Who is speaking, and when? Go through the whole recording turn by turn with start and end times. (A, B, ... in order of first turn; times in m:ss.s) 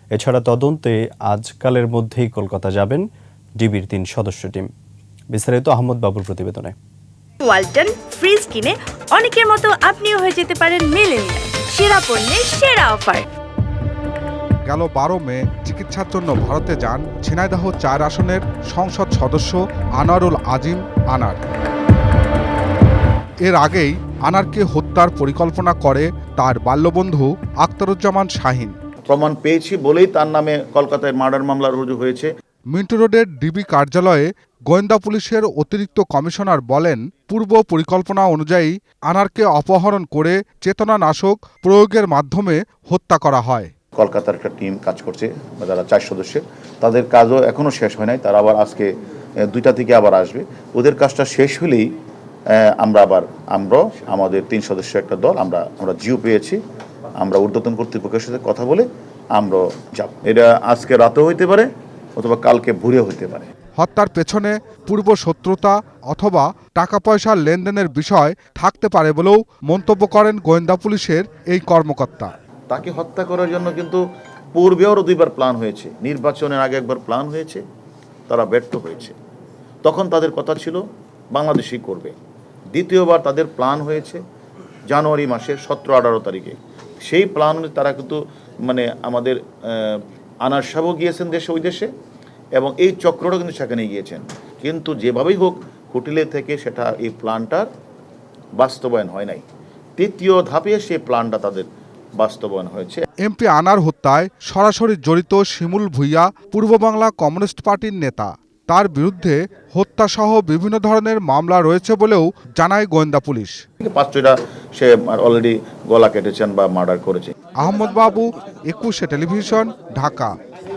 0:00.1-0:03.0 A
0:03.6-0:04.7 A
0:05.3-0:06.7 A
0:07.4-0:13.3 B
0:14.7-0:21.4 C
0:23.4-0:28.8 C
0:29.1-0:32.3 D
0:32.7-0:43.7 C
0:44.0-0:48.9 D
0:49.5-0:51.9 D
0:52.5-0:56.6 D
0:57.2-1:03.5 D
1:03.8-1:12.3 C
1:12.7-1:14.0 D
1:14.6-1:17.6 D
1:18.3-1:19.2 D
1:19.8-1:20.8 D
1:21.3-1:22.1 D
1:22.7-1:24.2 D
1:24.9-1:31.9 D
1:32.6-1:37.7 D
1:38.6-1:39.4 D
1:40.0-1:41.7 D
1:42.2-1:43.0 D
1:43.2-1:53.6 C
1:53.8-1:57.3 D
1:57.6-2:00.3 C